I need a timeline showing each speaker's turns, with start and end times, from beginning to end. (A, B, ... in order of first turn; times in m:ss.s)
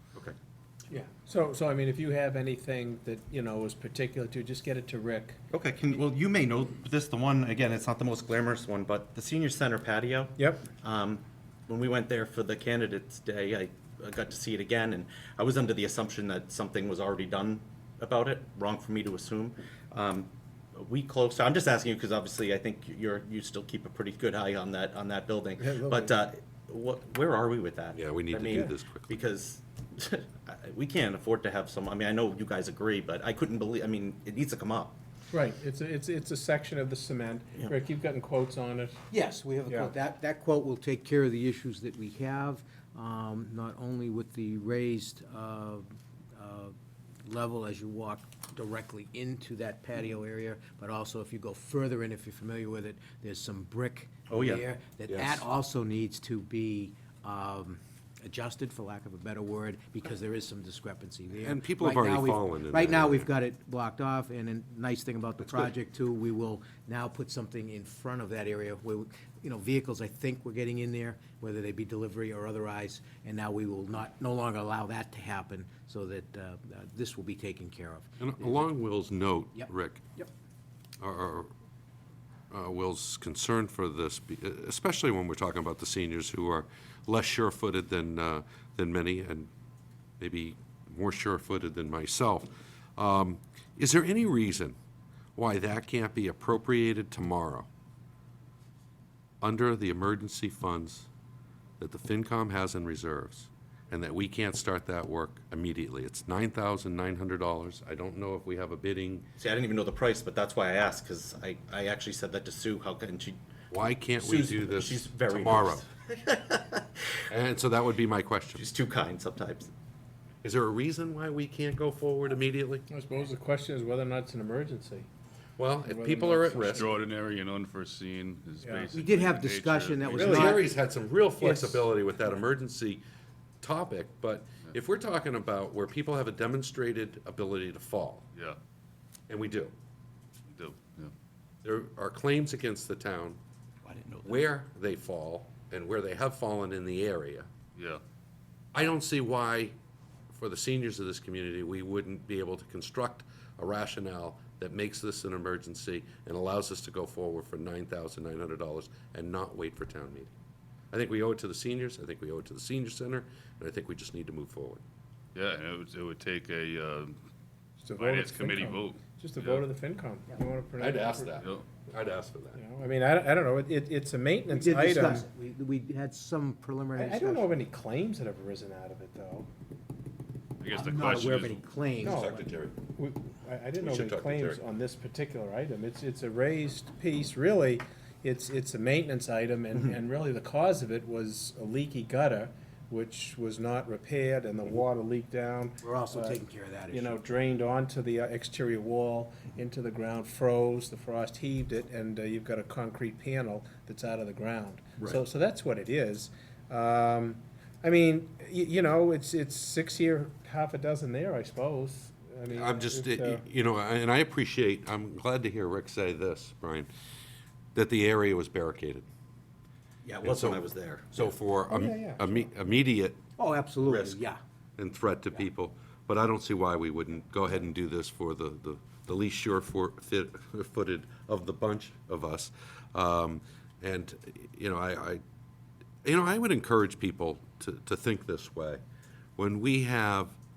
0:00.9-0:05.4 A
0:05.5-0:35.0 B
0:10.4-0:10.6 A
0:25.6-0:26.2 A
0:27.9-0:29.2 C
0:35.3-0:39.0 A
0:39.1-1:18.7 D
0:39.7-0:39.9 A
0:54.3-0:54.6 B
0:55.1-0:55.4 C
1:01.4-1:03.3 C
1:18.2-1:20.0 C
1:19.5-1:20.3 D
1:21.0-1:21.5 C
1:22.5-1:29.5 C
1:30.2-1:34.8 C
1:35.4-1:37.7 C
1:39.4-1:41.1 C
1:41.8-1:49.3 C
1:49.4-1:53.4 B
1:53.7-1:55.8 C
1:53.9-1:57.0 B
1:57.3-1:58.6 C
1:58.5-1:59.7 B
2:00.4-2:02.8 C
2:02.9-2:05.1 A
2:05.6-2:06.9 C
2:05.8-2:06.9 A
2:06.7-2:10.5 E
2:08.6-2:08.9 A
2:08.9-2:10.7 D
2:10.1-2:10.6 A
2:10.1-2:13.0 C
2:11.4-2:11.8 A
2:13.6-2:18.2 C
2:19.3-2:19.7 C
2:20.5-2:21.1 E
2:21.6-2:23.4 C
2:23.8-2:24.4 B
2:24.2-2:27.5 C
2:27.7-2:28.0 E
2:28.7-2:29.8 C
2:30.3-2:40.3 C
2:40.9-2:44.8 C
2:45.3-2:47.1 E
2:47.8-2:51.5 A
2:48.0-2:49.6 E
2:50.8-2:52.6 C
2:51.4-2:51.6 E
2:52.5-2:55.3 A
2:54.5-2:57.6 D
2:57.0-2:59.5 A
3:00.6-3:01.6 E
3:00.7-3:02.5 D
3:02.0-3:02.8 C
3:02.0-3:33.4 A
3:03.8-3:04.6 C
3:15.8-3:17.2 D
3:32.5-3:36.9 C
3:37.7-3:39.1 C
3:40.0-3:41.3 B
3:40.2-3:43.2 C
3:41.7-3:42.4 A
3:43.4-3:44.4 D
3:43.8-3:44.2 C
3:44.8-3:55.2 C
3:56.0-3:58.8 C
3:59.4-4:00.4 C